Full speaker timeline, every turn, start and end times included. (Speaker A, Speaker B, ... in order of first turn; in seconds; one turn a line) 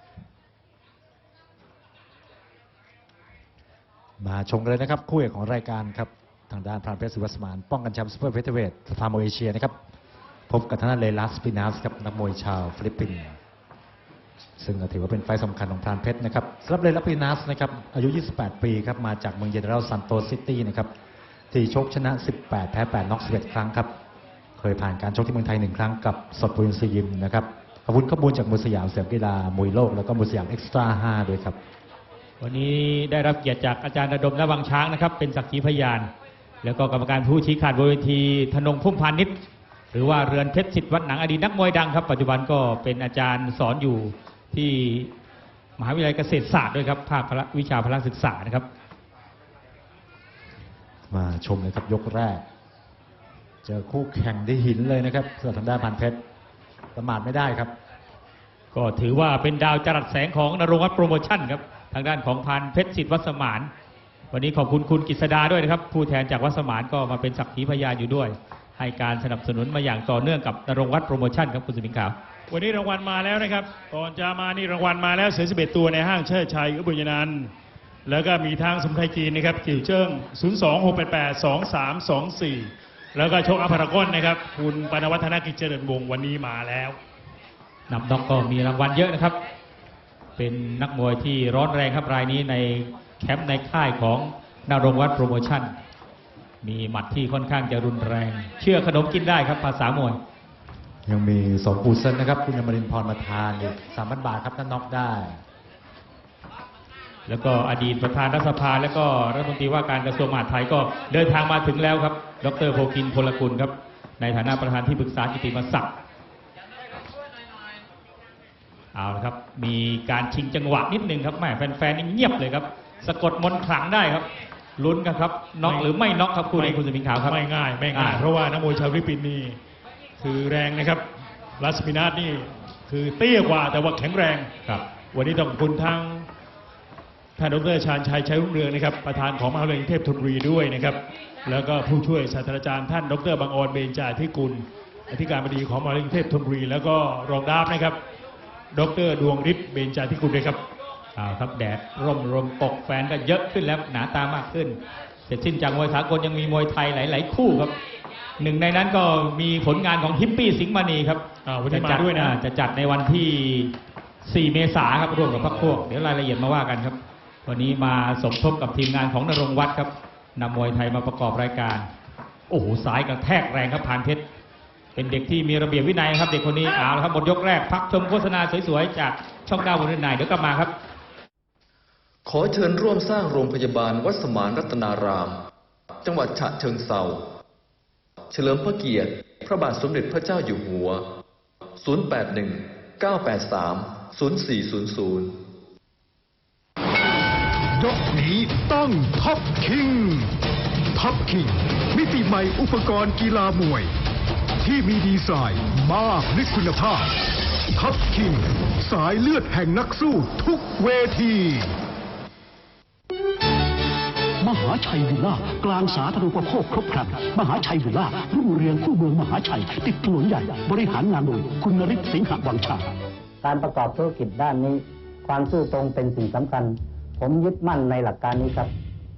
Speaker A: 4.2-9.7
Speaker A: 10.5-13.3
Speaker A: 14.6-20.9
Speaker A: 21.5-23.9
Speaker A: 24.6-31.6
Speaker B: 32.4-36.1
Speaker B: 36.6-39.3
Speaker B: 39.9-45.1
Speaker B: 45.8-48.7
Speaker A: 51.1-52.4
Speaker A: 53.6-56.2
Speaker A: 56.9-57.7
Speaker B: 58.7-63.7
Speaker B: 64.3-72.2
Speaker C: 72.5-77.5
Speaker C: 78.0-87.0
Speaker B: 87.9-89.4
Speaker B: 90.4-95.7
Speaker B: 96.6-100.2
Speaker A: 101.0-105.4
Speaker B: 107.3-115.9
Speaker B: 118.9-127.4
Speaker C: 125.6-125.9
Speaker C: 126.5-129.6
Speaker B: 127.9-128.2
Speaker C: 130.2-131.0
Speaker C: 131.6-134.5
Speaker C: 135.1-136.3
Speaker C: 137.4-148.0
Speaker C: 148.7-150.6
Speaker B: 151.1-157.7
Speaker B: 158.4-163.7
Speaker C: 161.4-162.3
Speaker B: 164.2-171.9
Speaker B: 172.5-174.2
Speaker B: 174.9-180.7
Speaker D: 182.2-185.4
Speaker D: 186.0-187.3
Speaker D: 188.3-191.1
Speaker D: 191.8-195.4
Speaker E: 197.8-200.3
Speaker E: 200.9-203.9
Speaker E: 204.6-207.1
Speaker E: 207.7-211.8
Speaker F: 214.4-222.9
Speaker G: 223.4-228.7